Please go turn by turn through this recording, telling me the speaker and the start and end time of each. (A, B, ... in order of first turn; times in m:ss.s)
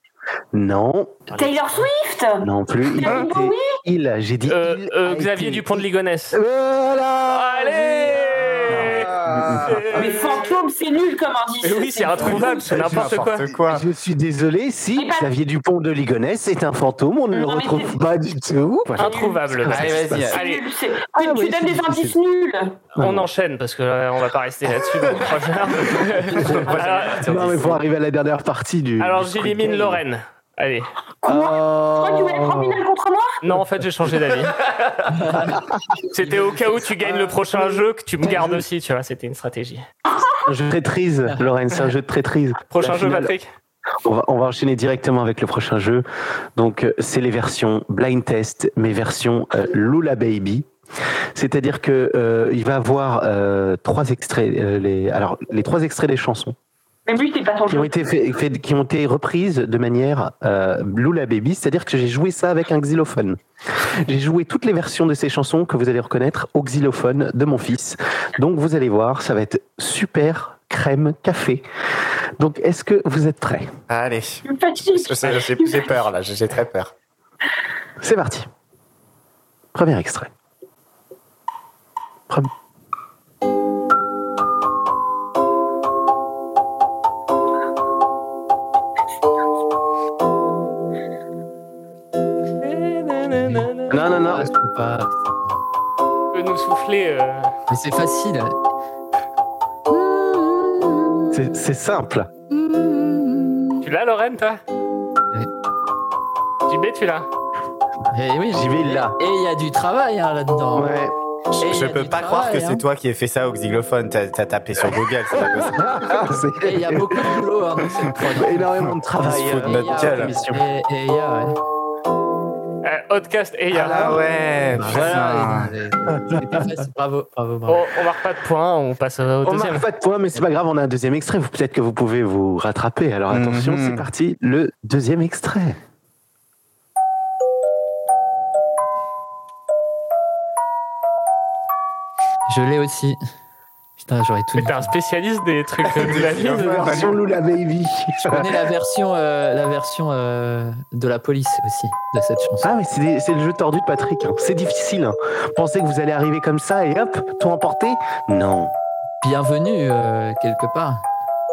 0:00.5-0:01.2 A
0:01.4-0:03.8 B
0:02.4-0:09.8 A
0:04.5-0:06.4 C
0:07.3-0:10.4 C
0:08.7-0:09.8 D
0:09.9-0:12.8 B
0:11.6-0:13.5 C
0:12.5-0:13.9 D
0:13.6-0:20.3 A
0:15.0-0:15.3 B
0:17.3-0:18.0 B
0:19.0-0:20.7 C
0:19.0-0:19.4 B
0:19.7-0:20.4 D
0:20.3-0:22.9 B
0:21.2-0:22.2 A
0:23.0-0:23.3 A
0:23.0-0:27.6 C
0:25.9-0:27.8 D
0:26.4-0:30.0 A
0:29.0-0:30.9 C
0:31.2-0:33.4 B
0:31.3-0:32.8 A
0:33.4-0:35.0 C
0:35.1-0:35.6 E
0:35.4-0:35.8 A
0:36.1-0:39.9 C
0:36.2-0:36.8 E
0:37.0-0:38.6 A
0:40.5-0:43.3 A
0:42.7-0:43.5 C
0:44.0-0:46.0 A
0:46.6-0:50.7 A
0:51.4-0:56.6 A
0:57.1-0:57.9 B
0:57.7-1:03.4 A
1:04.0-1:11.6 A
1:12.4-1:13.7 A
1:13.9-1:16.9 D
1:14.5-1:16.0 B
1:18.0-1:18.5 A
1:19.7-1:20.3 A
1:32.6-1:34.0 C
1:33.4-1:35.4 E
1:33.9-1:34.5 A
1:36.3-1:37.5 C
1:37.7-1:38.6 E
1:39.9-1:41.4 E
1:41.3-1:42.3 A
1:42.5-1:43.8 E
1:43.8-1:44.6 C
1:46.7-1:47.3 C
1:48.1-1:50.9 E
1:48.5-1:49.2 A
1:50.7-1:51.1 A
1:51.5-1:56.2 D
1:51.6-1:52.8 E
1:55.4-1:57.4 A
1:56.6-1:58.7 E
1:58.4-2:00.6 A
1:59.2-2:00.4 D
1:59.3-2:01.6 E
2:02.8-2:04.1 C
2:03.7-2:04.2 A
2:03.8-2:05.7 D
2:04.7-2:07.8 E
2:06.1-2:06.6 A
2:07.7-2:09.9 C
2:09.4-2:15.8 A
2:13.3-2:14.1 D
2:22.5-2:23.2 E
2:24.0-2:24.9 E
2:24.6-2:27.0 C
2:25.9-2:27.2 D
2:26.4-2:28.5 A
2:28.2-2:32.7 E
2:32.6-2:38.7 A
2:39.2-2:41.0 E